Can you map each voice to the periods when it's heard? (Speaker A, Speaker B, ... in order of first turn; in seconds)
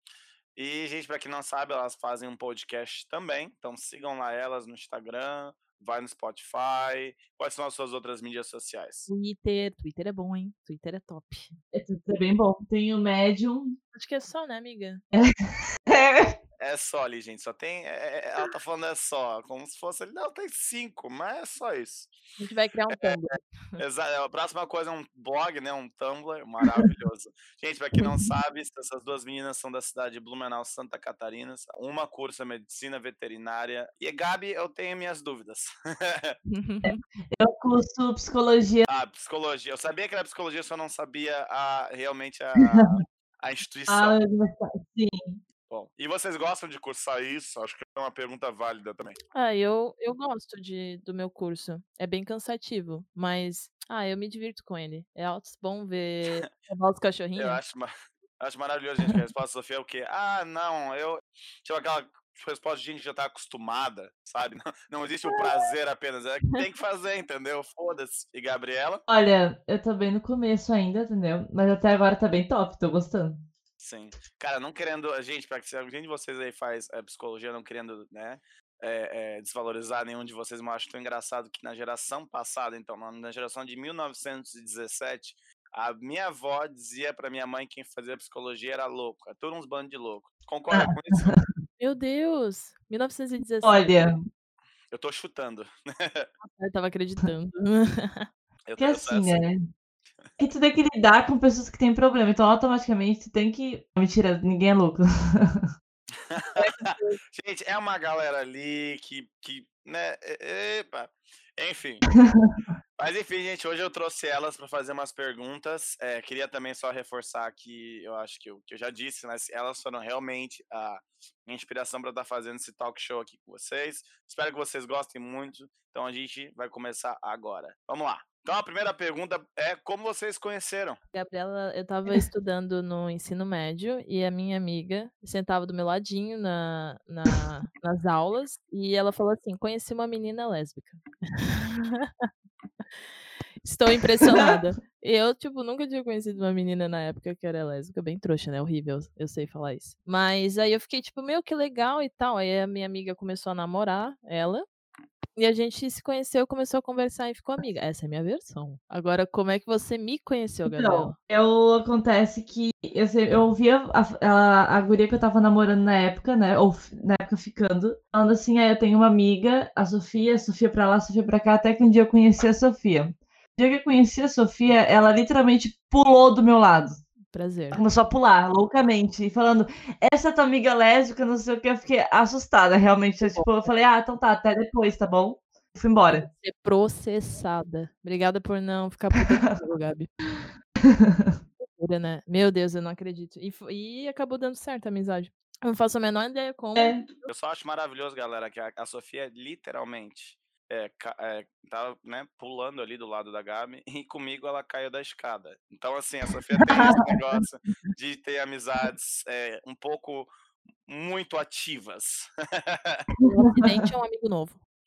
Speaker A: 0.6-9.1, 16.6-22.1, 22.9-23.2, 23.8-36.4, 38.9-44.2, 45.7-49.2, 57.4-69.0, 73.8-91.4, 94.9-96.3, 98.7-99.4, 106.3-112.1, 113.0-131.0, 197.3-210.3, 210.9-213.1
Speaker B: 9.1-11.6, 13.9-15.0, 22.4-23.8, 36.5-37.0, 49.3-57.6, 91.8-94.0, 96.4-98.3, 131.1-142.3, 143.6-154.7, 155.4-161.1, 177.3-177.8, 183.2-183.5, 186.2-190.1, 191.6-197.0, 213.2-214.6
Speaker C: 11.7-13.8, 15.1-16.4, 36.8-38.9, 43.9-45.4, 69.1-73.4, 90.7-91.4, 93.6-94.2, 98.8-99.6, 100.4-105.7, 106.6-107.1, 112.2-112.5, 144.2-144.5, 160.7-177.0, 177.7-186.3, 190.8-191.4, 196.8-197.1, 206.7-207.3, 213.2-213.9